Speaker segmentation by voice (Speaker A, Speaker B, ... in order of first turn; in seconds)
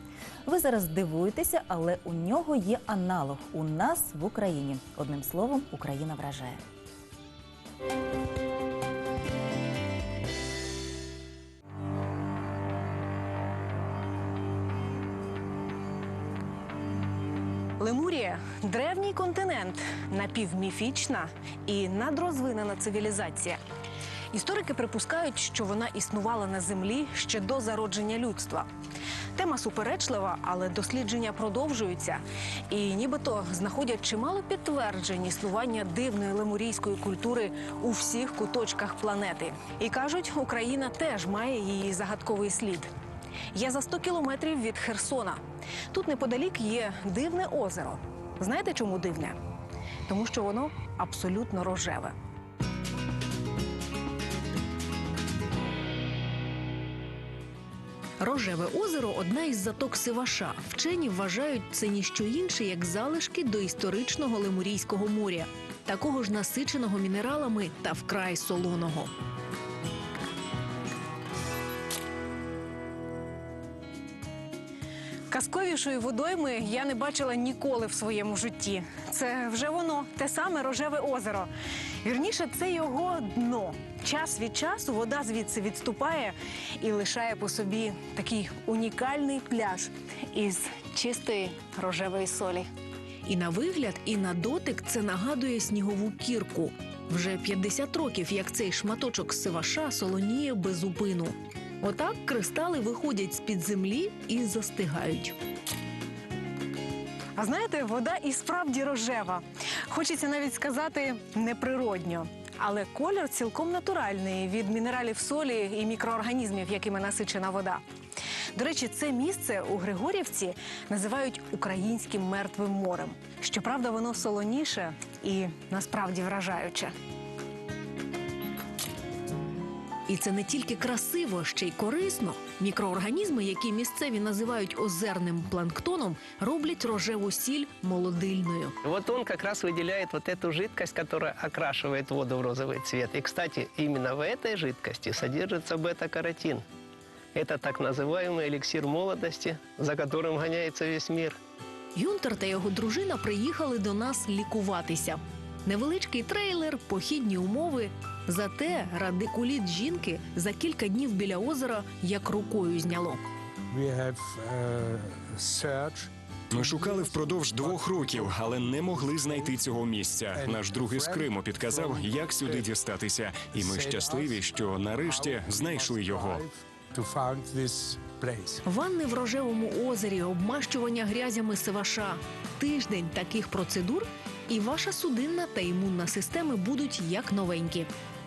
Speaker A: 0.4-6.6
Speaker B: 17.8-23.6, 24.3-28.7, 29.3-42.9, 43.5-49.4, 50.1-52.1, 58.2-69.1, 75.3-81.5, 82.0-92.7, 93.2-105.3, 107.3-117.8, 118.5-126.9, 130.1-138.7, 151.9-163.2, 178.7-187.9
Speaker C: 138.8-146.6, 147.3-151.4
Speaker D: 163.7-169.6, 170.3-172.7, 173.5-174.4, 174.9-178.6
Speaker E: 166.5-176.4